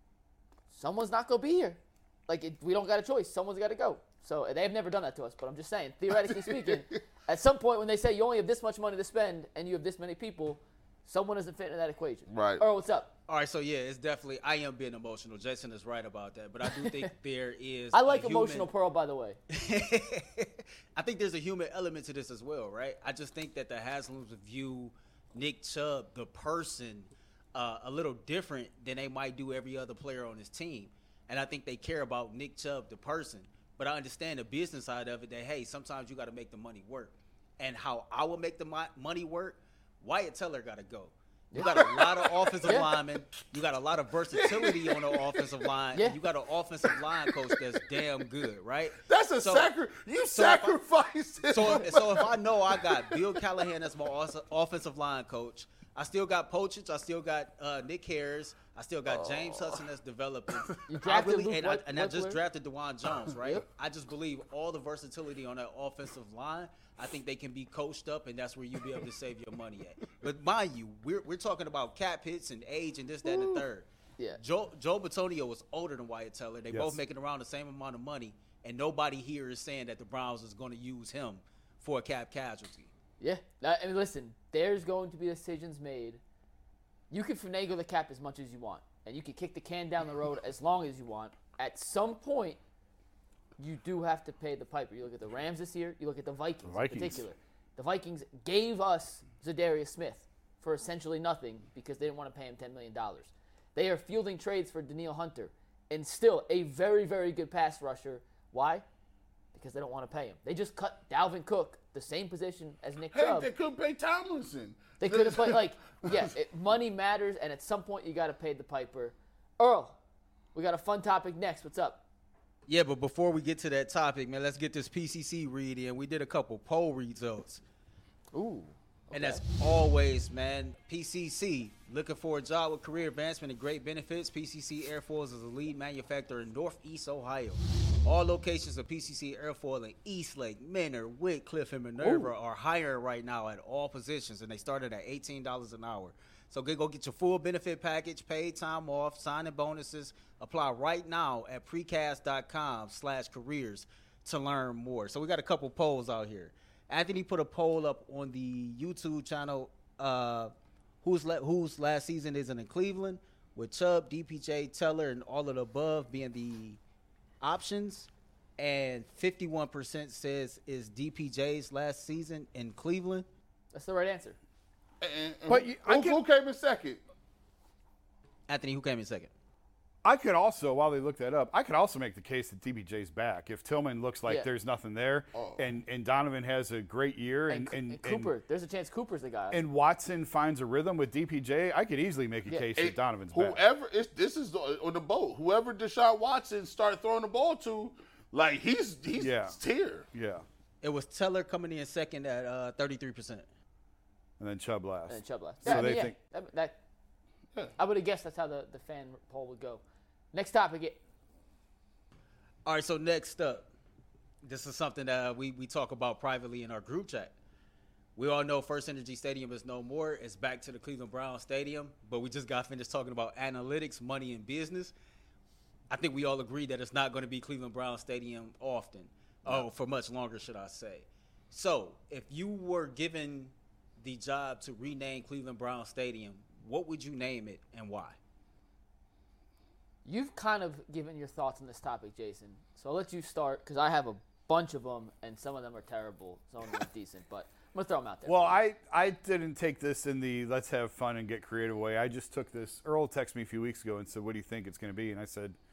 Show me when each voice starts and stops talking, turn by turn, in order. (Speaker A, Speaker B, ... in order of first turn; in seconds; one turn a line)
Speaker A: 0.7-13.1
Speaker B: 6.2-7.0
Speaker B: 12.3-12.6
Speaker C: 13.3-18.7
Speaker A: 17.9-19.4
Speaker C: 19.5-49.7
Speaker B: 41.6-42.8
Speaker A: 42.6-42.9
Speaker B: 44.3-45.7
Speaker B: 46.8-48.2
Speaker B: 49.0-53.5
Speaker C: 50.3-50.8
Speaker C: 51.5-73.8
Speaker B: 59.1-59.8
Speaker B: 60.5-60.8
Speaker A: 60.9-62.4
Speaker C: 74.4-82.9
Speaker D: 76.7-77.0
Speaker A: 83.2-86.2
Speaker A: 87.1-92.6
Speaker A: 93.6-108.8
Speaker D: 96.6-97.2
Speaker A: 109.5-113.5
Speaker B: 113.1-116.3
Speaker A: 115.0-120.0
Speaker A: 120.5-122.0
Speaker C: 122.7-127.6
Speaker A: 128.3-129.4
Speaker C: 129.1-160.5
Speaker A: 142.0-142.3
Speaker C: 161.0-166.8
Speaker C: 167.4-173.2
Speaker A: 173.7-174.4
Speaker B: 175.0-177.0
Speaker D: 175.5-176.2
Speaker C: 178.5-179.3
Speaker D: 180.0-188.3
Speaker B: 185.3-185.7
Speaker A: 187.5-189.6
Speaker D: 189.5-193.6
Speaker B: 192.8-200.1
Speaker D: 199.2-199.6
Speaker D: 200.1-200.4
Speaker C: 200.8-203.4
Speaker D: 204.4-206.2
Speaker A: 205.1-206.8
Speaker A: 207.8-209.8
Speaker A: 210.3-211.0
Speaker C: 212.7-213.7
Speaker C: 214.4-217.3
Speaker C: 218.2-224.9
Speaker C: 225.9-238.2
Speaker A: 240.0-248.6
Speaker D: 248.2-255.6